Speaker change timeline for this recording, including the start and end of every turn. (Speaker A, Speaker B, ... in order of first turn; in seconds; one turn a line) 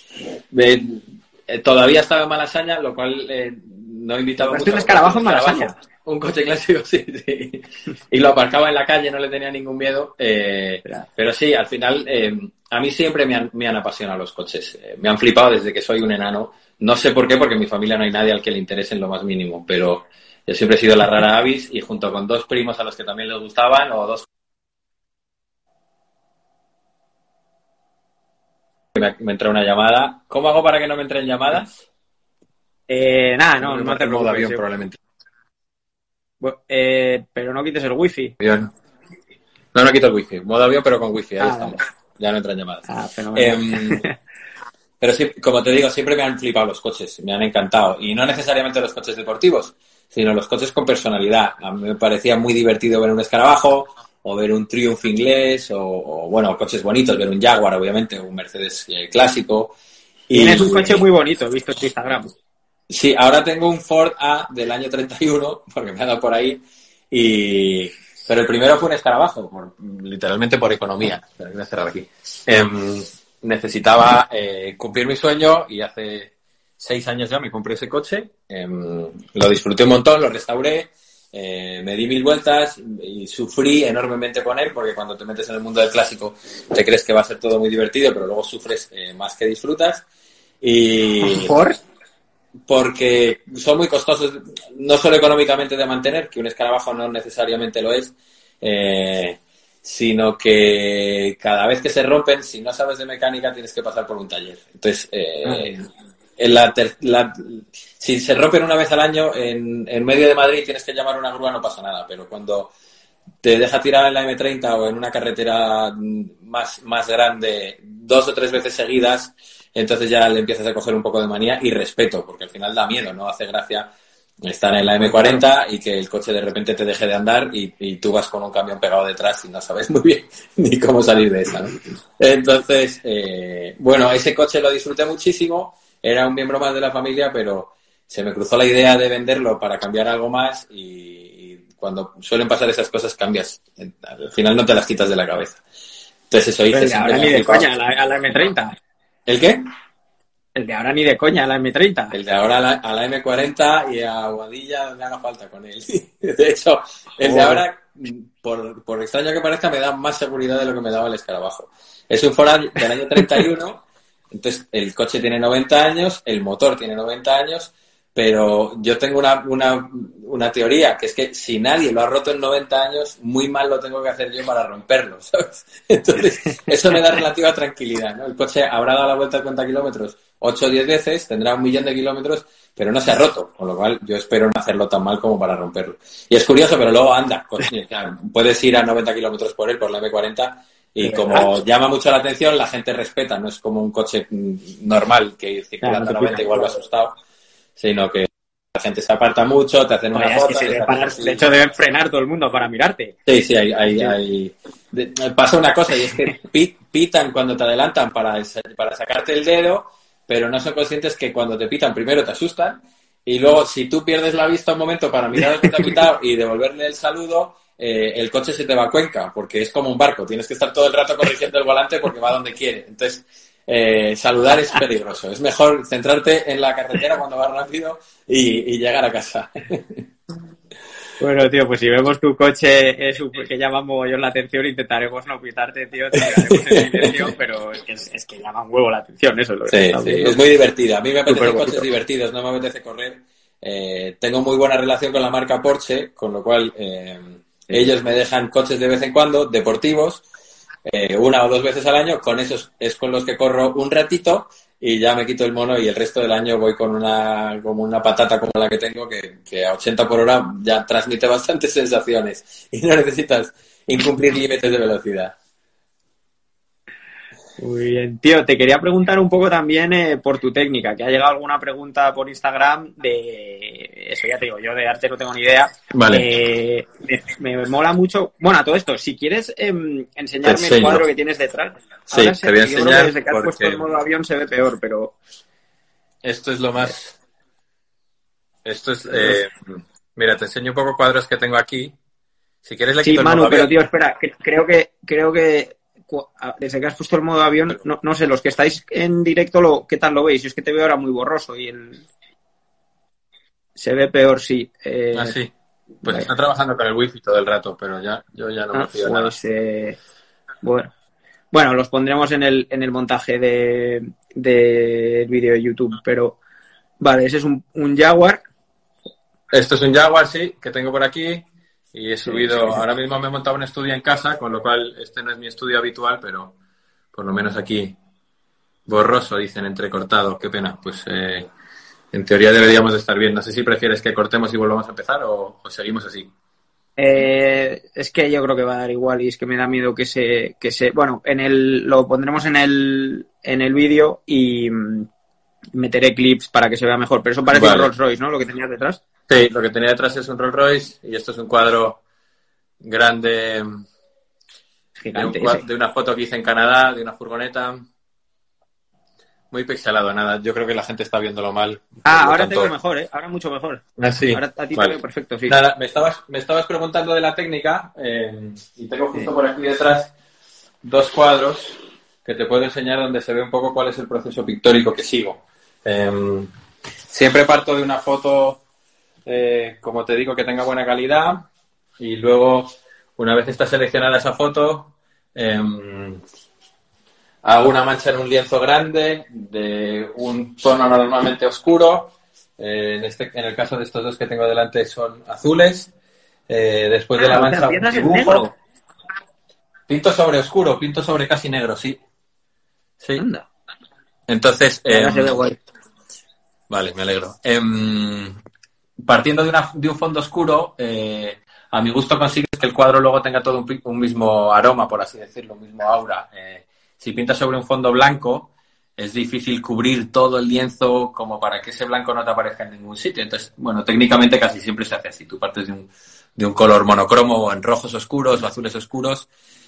Speaker A: 0.5-24.3
Speaker B: 4.4-5.8
Speaker A: 28.9-31.9
Speaker B: 32.9-34.6
Speaker A: 33.6-35.0
Speaker B: 36.4-38.4
Speaker A: 38.4-38.7
Speaker A: 39.7-44.0
Speaker B: 41.4-41.8
Speaker B: 42.9-44.1
Speaker A: 45.0-59.8
Speaker A: 60.3-61.0
Speaker B: 60.3-62.3
Speaker A: 62.9-90.1
Speaker A: 90.6-91.6
Speaker B: 91.2-91.8
Speaker A: 92.7-105.8
Speaker B: 105.4-105.8
Speaker A: 106.4-112.7
Speaker A: 113.4-123.9
Speaker A: 124.4-145.6
Speaker A: 146.3-147.7
Speaker B: 146.7-148.8
Speaker A: 149.3-149.6
Speaker B: 150.6-152.2
Speaker A: 152.1-197.1
Speaker B: 157.2-157.6
Speaker B: 191.0-191.5
Speaker B: 195.8-196.8
Speaker A: 197.8-201.4
Speaker B: 200.1-203.1
Speaker A: 203.3-230.0
Speaker B: 215.6-215.9
Speaker B: 231.2-240.4
Speaker A: 236.2-237.3
Speaker A: 239.7-250.2
Speaker B: 241.3-241.9
Speaker A: 250.9-265.4
Speaker B: 267.6-285.1
Speaker A: 275.9-276.3
Speaker A: 280.4-281.1
Speaker A: 282.1-283.8
Speaker A: 286.2-287.2
Speaker A: 288.6-291.9
Speaker B: 289.1-289.4
Speaker A: 292.6-293.7
Speaker B: 293.0-302.1
Speaker B: 303.8-305.4
Speaker A: 305.1-309.4
Speaker B: 308.7-310.0
Speaker B: 310.6-310.9
Speaker B: 311.5-316.4
Speaker B: 317.0-318.4
Speaker A: 319.5-326.6
Speaker B: 322.3-322.8
Speaker A: 327.1-328.0
Speaker A: 328.9-331.5
Speaker A: 332.1-336.3
Speaker B: 337.0-345.1
Speaker B: 345.8-349.0
Speaker A: 347.5-347.9
Speaker A: 349.3-352.0
Speaker A: 352.8-353.8
Speaker B: 355.0-355.6
Speaker A: 355.1-357.8
Speaker A: 359.5-362.7
Speaker B: 362.1-365.6
Speaker A: 364.0-370.1
Speaker A: 370.8-376.5
Speaker A: 377.1-378.6
Speaker A: 379.3-381.5
Speaker A: 382.0-386.2
Speaker A: 387.4-395.9
Speaker A: 396.5-398.4
Speaker B: 397.2-398.5
Speaker A: 399.9-402.0
Speaker B: 403.2-403.5
Speaker A: 404.3-405.4
Speaker B: 404.9-405.6
Speaker A: 406.7-408.4
Speaker A: 409.1-429.3